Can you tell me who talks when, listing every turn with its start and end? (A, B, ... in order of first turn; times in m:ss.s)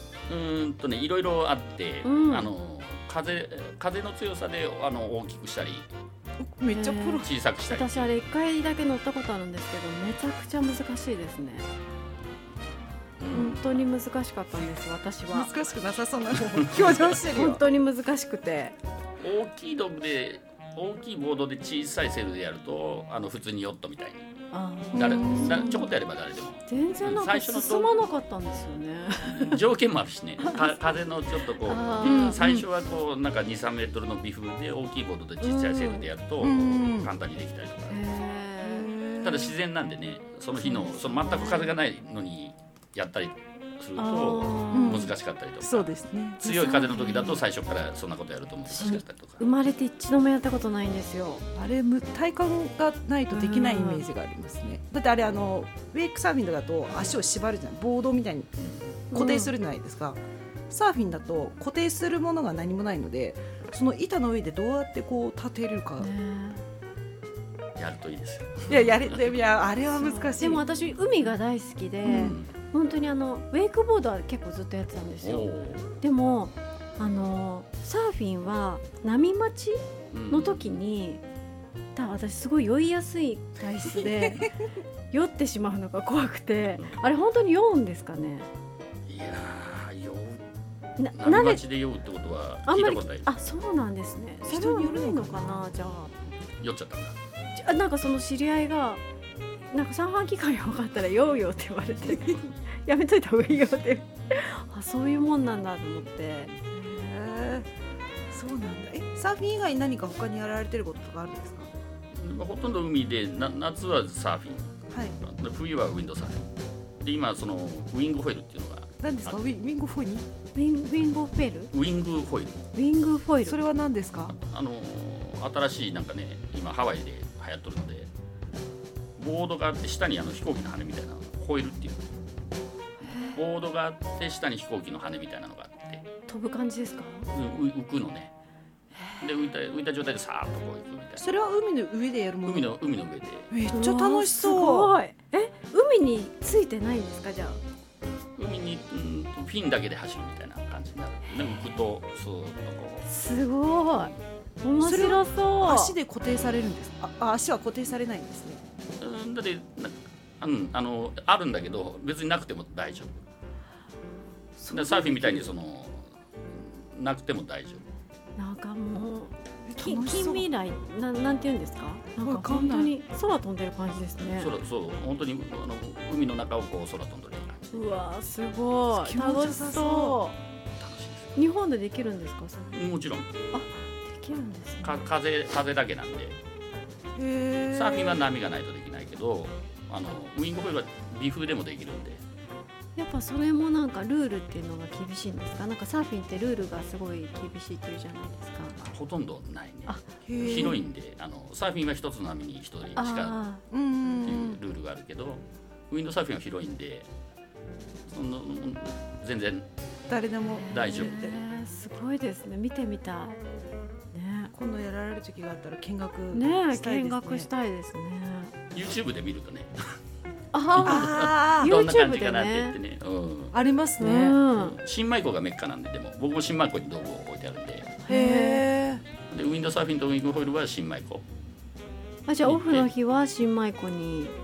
0:00.3-0:05.9 A
0:02.0-0:02.5 B
0:06.4-0:07.3 C
0:06.7-0:11.7 B
0:07.2-0:08.1 A
0:13.2-0:13.8 A
0:13.3-0:15.6 B
0:15.3-0:17.6 C
0:16.5-0:17.2 A
0:17.3-0:18.8 B
0:19.2-0:24.2 A
0:24.5-0:25.9 B
0:24.9-0:25.8 C
0:24.9-0:27.9 A
0:26.7-0:29.6 B
0:29.2-0:38.0 A
0:30.4-0:30.8 B
0:31.6-0:32.5 B
0:32.0-0:32.6 C
0:35.4-0:36.1 B
0:36.4-0:37.1 C
0:37.9-0:38.9 B
0:38.6-0:39.6 C
0:39.2-0:49.4 A
0:40.6-0:41.7 B
0:44.0-0:45.1 B
0:44.7-0:47.0 C
0:46.8-0:47.4 B
0:48.7-0:51.4 B
0:51.6-0:58.5 C
0:53.3-0:54.0 B
0:58.6-0:59.0 A
0:59.1-1:06.1 C
0:59.1-0:59.5 B
1:06.0-1:06.6 B
1:07.8-1:09.6 A
1:08.7-1:10.6 C
1:10.0-1:21.2 B
1:12.0-1:12.4 C
1:12.1-1:12.5 A
1:15.2-1:16.0 A
1:20.1-1:20.8 A
1:22.0-1:24.5 B
1:24.0-1:24.5 C
1:25.1-1:28.5 B
1:29.1-1:30.4 A
1:31.0-1:31.6 B
1:31.2-1:33.3 A
1:32.7-1:36.1 B
1:34.5-1:35.8 C
1:36.6-1:37.2 A
1:37.6-1:39.0 B
1:39.7-1:46.5 B
1:46.7-1:47.7 C
1:48.3-1:51.7 C
1:52.1-1:59.4 A
1:54.9-1:55.2 C
1:59.0-2:00.3 C
2:00.6-2:01.7 B
2:01.7-2:02.6 A
2:02.8-2:03.6 B
2:03.4-2:04.4 C
2:04.3-2:08.1 A
2:09.2-2:12.0 A
2:13.1-2:13.3 B
2:13.3-2:16.0 A
2:16.3-2:17.3 B
2:17.3-2:18.3 A
2:19.2-2:21.3 A
2:21.2-2:22.7 C
2:22.5-2:23.5 A
2:23.5-2:24.9 C
2:23.7-2:27.6 B
2:28.4-2:33.1 A
2:33.1-2:36.0 B
2:34.8-2:38.6 C
2:39.0-2:43.2 A
2:44.6-2:45.5 C
2:44.7-2:47.8 A
2:48.4-2:54.5 B
2:49.7-2:50.5 C
2:52.2-2:52.9 C
2:54.3-2:58.0 A
2:57.7-3:00.4 B
2:58.9-3:00.2 C
3:00.8-3:01.4 A
3:01.4-3:02.8 B
3:02.7-3:03.3 A
3:03.5-3:05.0 B
3:04.8-3:06.4 A
3:07.2-3:08.2 C
3:07.7-3:12.2 A
3:13.0-3:18.8 B
3:18.8-3:23.4 A
3:19.9-3:20.6 B
3:20.3-3:20.8 C
3:23.0-3:23.6 B
3:23.7-3:24.6 C
3:24.2-3:27.1 A
3:28.1-3:29.7 A
3:30.1-3:31.4 C
3:30.5-3:33.4 B
3:30.7-3:31.3 A
3:34.1-3:34.5 B
3:34.5-3:37.5 C
3:36.3-3:38.5 B
3:38.7-3:40.0 A
3:40.5-3:42.8 B
3:40.8-3:43.6 A
3:40.8-3:41.7 C
3:43.5-3:44.4 C
3:44.0-3:44.8 B
3:44.5-3:48.0 A
3:48.1-3:48.6 B
3:48.1-3:49.0 C
3:49.3-3:51.2 A
3:52.3-3:54.3 B
3:52.4-3:52.9 A